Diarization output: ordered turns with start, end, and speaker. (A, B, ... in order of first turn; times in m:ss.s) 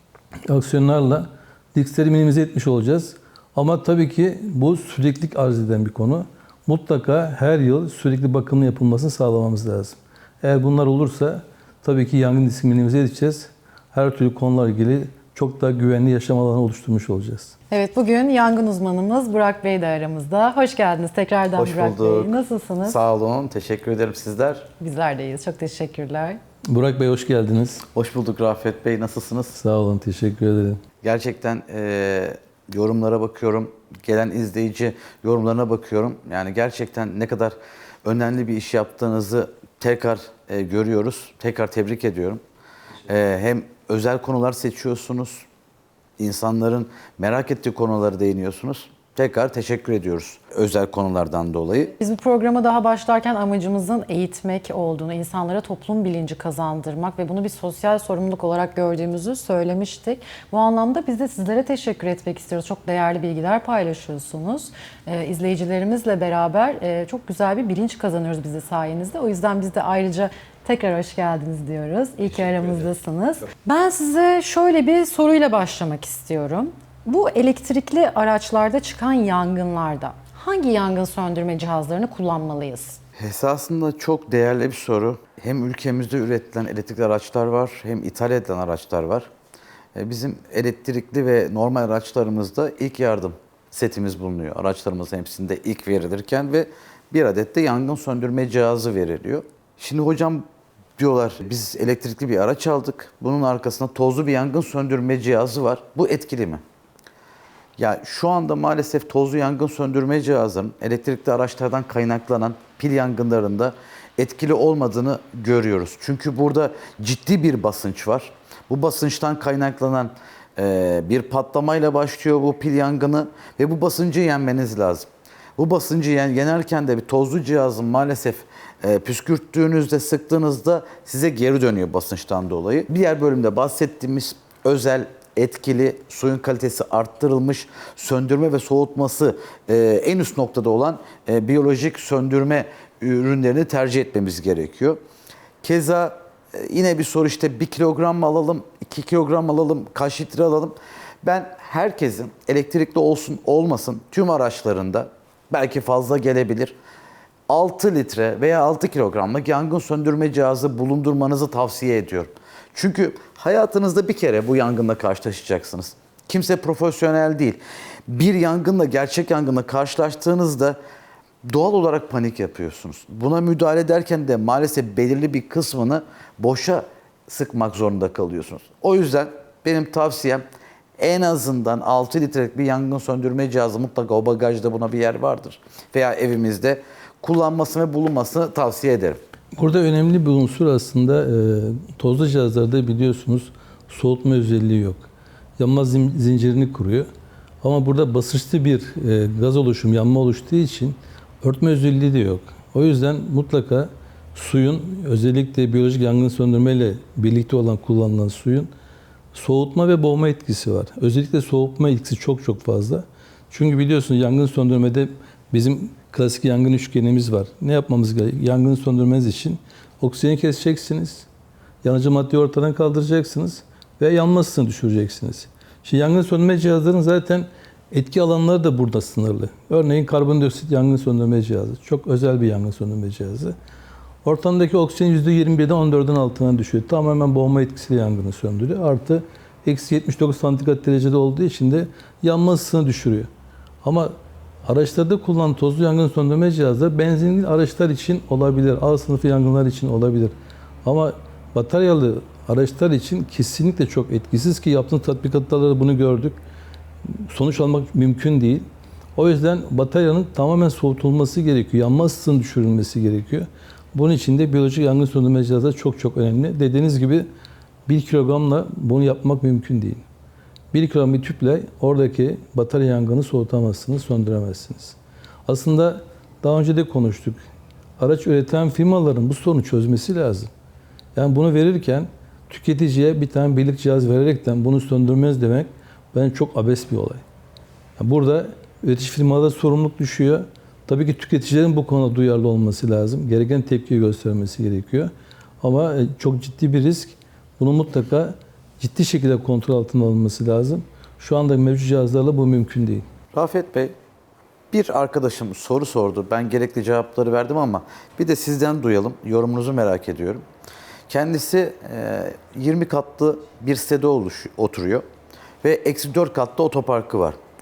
0:00.5-0:17.5 A
0:17.7-0:23.0 B
0:21.5-0:24.7 C
0:24.8-0:26.4 B
0:26.7-0:27.8 A
0:27.9-0:29.6 C
0:29.6-0:30.8 A
0:31.0-0:42.4 C
0:43.1-0:45.5 C
0:46.2-0:51.9 C
0:52.0-1:23.0 B
1:23.2-1:29.3 C
1:29.9-1:40.4 C
1:41.0-1:46.6 C
1:47.8-2:25.0 C
2:25.6-2:36.7 C
2:37.5-2:50.8 C
2:51.4-3:00.4 C
3:01.0-3:09.2 C
3:09.6-3:15.1 A
3:15.6-3:17.1 A
3:17.6-3:28.7 A
3:29.3-3:41.2 A
3:41.8-3:53.6 A
3:54.2-4:03.3 A
4:03.8-4:04.1 A
4:04.6-4:16.4 A
4:17.1-4:27.3 A
4:27.8-4:30.0 A
4:30.7-4:37.4 A
4:38.0-4:40.5 A
4:41.2-4:47.2 A
4:48.0-4:55.1 A
4:55.6-5:03.1 A
5:03.3-5:03.9 C
5:04.7-5:10.4 C
5:11.1-5:15.0 C
5:15.6-5:17.4 C